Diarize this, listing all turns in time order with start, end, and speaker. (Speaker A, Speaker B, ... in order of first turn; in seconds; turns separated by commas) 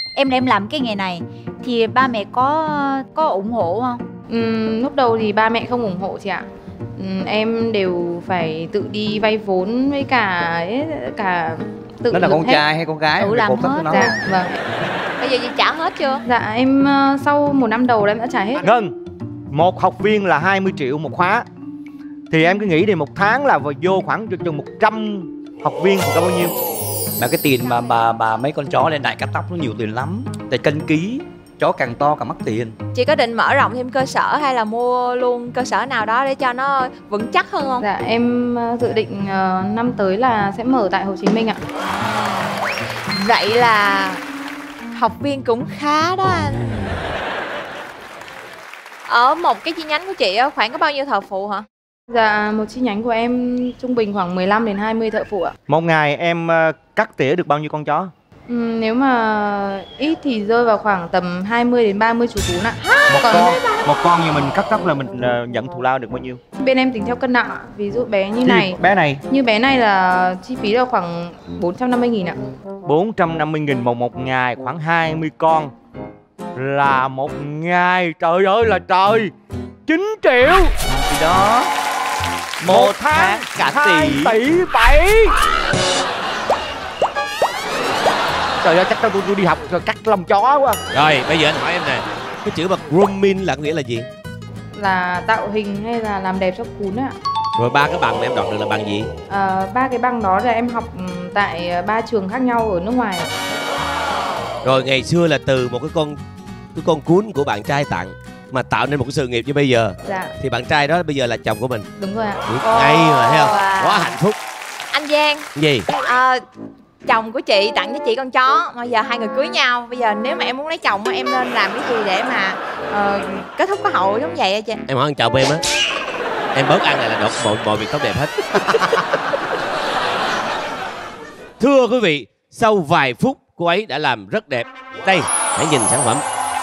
Speaker A: 0.1-4.0, Speaker B: 4.3-6.5, Speaker B: 7.0-12.7, Speaker C: 12.1-14.1, Speaker A: 13.2-14.2, Speaker B: 13.9-14.6, Speaker D: 15.2-16.2, Speaker B: 16.3-18.7, Speaker E: 18.6-18.9, Speaker E: 19.5-21.4, Speaker E: 22.3-26.6, Speaker C: 27.2-32.8, Speaker D: 32.9-37.8, Speaker B: 37.8-41.6, Speaker D: 43.1-44.2, Speaker D: 44.9-46.6, Speaker D: 49.1-51.7, Speaker B: 52.1-55.5, Speaker E: 55.7-58.1, Speaker B: 58.5-63.6, Speaker E: 63.1-66.4, Speaker B: 66.6-68.8, Speaker E: 68.4-69.2, Speaker B: 69.3-72.4, Speaker E: 72.8-75.7, Speaker E: 76.6-79.3, Speaker E: 79.9-80.8, Speaker C: 81.2-81.6, Speaker E: 82.6-85.3, Speaker F: 82.6-84.4, Speaker E: 88.6-90.8, Speaker F: 90.9-94.1, Speaker B: 94.8-97.2, Speaker F: 97.6-99.1, Speaker B: 99.3-103.3, Speaker F: 104.6-106.2, Speaker F: 106.8-111.9, Speaker B: 110.0-110.3, Speaker B: 112.0-113.5, Speaker F: 112.5-114.4, Speaker D: 113.5-114.0, Speaker D: 114.9-115.5, Speaker F: 115.6-115.9, Speaker D: 116.0-116.5, Speaker D: 117.0-124.8, Speaker F: 124.9-125.7, Speaker F: 126.5-129.0, Speaker F: 131.6-136.2